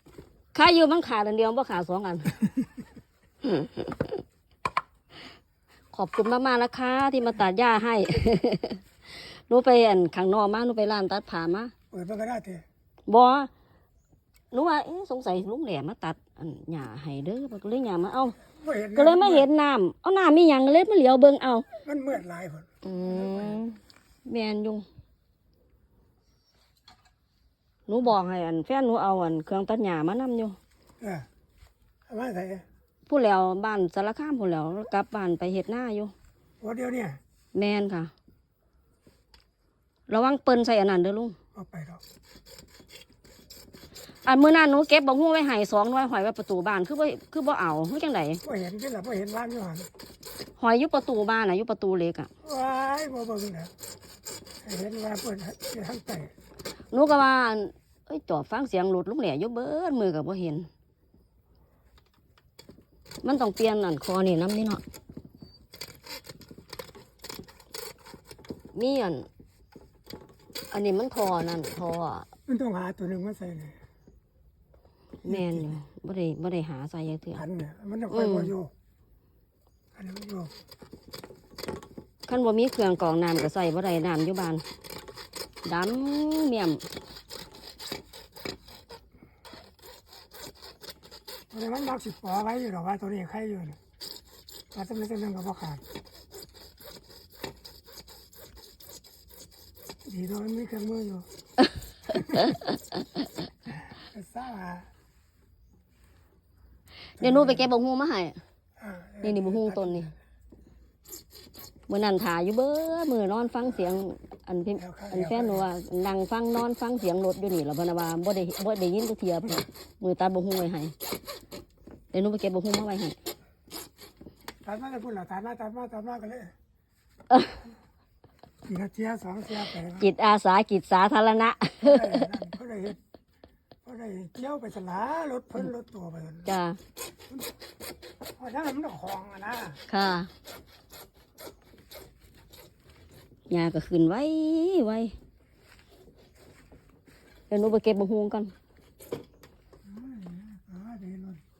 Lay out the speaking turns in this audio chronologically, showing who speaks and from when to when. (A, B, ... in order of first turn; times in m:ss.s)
0:00.5-0:02.4 A
0:03.4-0:04.0 A
0:05.9-0:11.7 A
0:11.9-0:12.6 B
0:13.1-0:13.5 A
0:14.5-0:18.4 A
0:18.5-0:19.5 B
0:19.0-0:21.7 A
0:21.8-0:23.6 B
0:22.8-0:24.8 A
0:27.9-0:30.6 A
0:31.0-0:31.3 B
0:32.1-0:32.6 B
0:33.1-0:36.1 A
0:36.6-0:37.2 B
0:37.5-0:38.1 A
0:40.1-0:41.4 A
0:41.5-0:42.0 B
0:44.2-0:48.4 A
0:48.4-0:49.9 B
0:50.6-0:52.3 A
0:52.4-0:53.7 B
0:54.6-0:56.3 B
0:56.9-1:00.7 A
1:03.2-1:04.8 A
1:08.7-1:09.3 A
1:10.7-1:12.3 A
1:12.5-1:13.8 B
1:15.2-1:17.4 A
1:15.2-1:15.8 B
1:17.3-1:18.7 B
1:18.1-1:18.6 A
1:19.9-1:20.5 B
1:22.3-1:24.6 A
1:25.6-1:26.8 A
1:31.5-1:33.8 B
1:34.7-1:35.8 B
1:40.0-1:41.3 B
1:42.1-1:42.6 B
1:44.1-1:44.9 B
1:47.2-1:47.7 B
1:47.2-1:48.4 A
1:48.8-1:50.1 B
1:49.2-1:50.1 A
1:51.9-2:00.9 A
1:54.8-1:55.7 B
2:02.1-2:03.2 A
2:04.6-2:06.5 B
2:08.7-2:10.1 B
2:10.0-2:12.4 A
2:11.8-2:13.0 B
2:13.8-2:16.5 B
2:16.5-2:16.8 A
2:18.4-2:19.8 B
2:19.9-2:20.3 A
2:23.5-2:25.2 A
2:27.5-2:28.5 A
2:29.8-2:31.4 B